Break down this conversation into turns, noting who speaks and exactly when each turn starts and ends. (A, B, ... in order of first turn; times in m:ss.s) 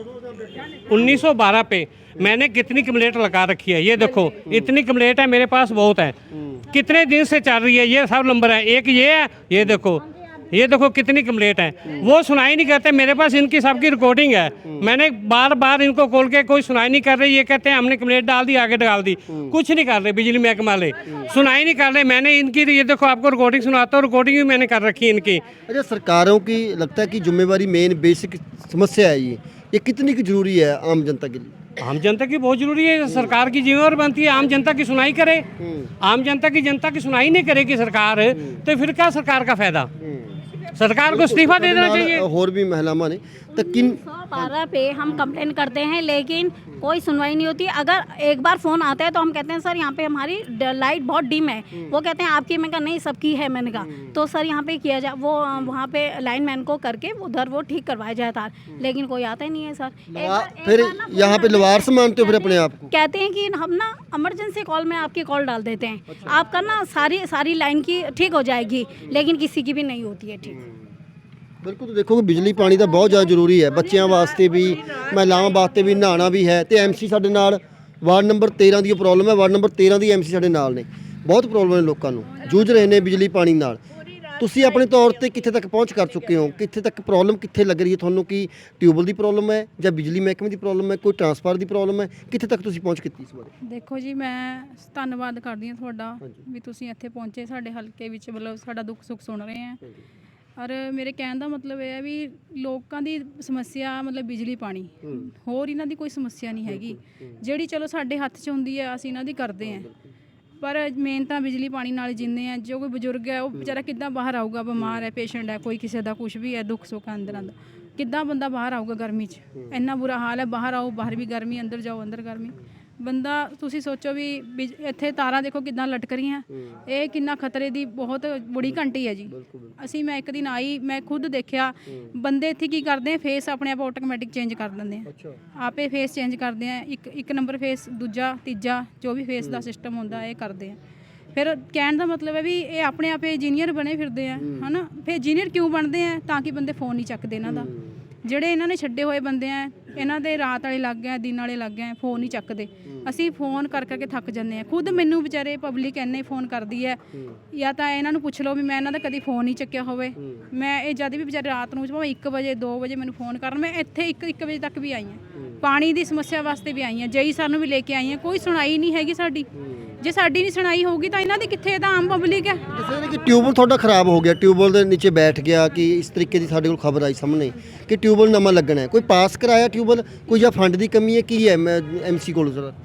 0:00.7-0:06.2 A
0:04.4-0:04.7 B
0:06.3-0:06.6 B
0:06.7-0:25.4 A
0:19.3-0:19.5 B
0:25.7-0:31.6 B
0:31.8-0:35.4 A
0:33.1-0:33.3 B
0:35.6-0:35.9 B
0:36.0-0:39.9 A
0:40.0-0:40.4 B
0:40.7-0:42.2 A
0:41.1-0:44.5 B
0:43.7-1:10.6 C
0:53.8-0:54.1 B
1:00.1-1:02.9 B
1:06.1-1:06.4 B
1:11.6-1:23.8 B
1:24.4-1:33.5 B
1:33.6-1:39.8 D
1:40.6-1:49.9 D
1:46.7-1:47.3 B
1:49.6-1:50.0 B
1:50.6-2:20.8 D
2:08.7-2:09.7 B
2:15.0-2:15.4 B
2:21.3-2:27.7 D
2:24.4-2:24.7 B
2:27.4-2:27.9 B
2:28.2-2:37.0 D
2:37.5-2:49.5 D
2:40.2-2:40.5 B
2:50.0-2:52.6 D
2:52.7-3:02.8 B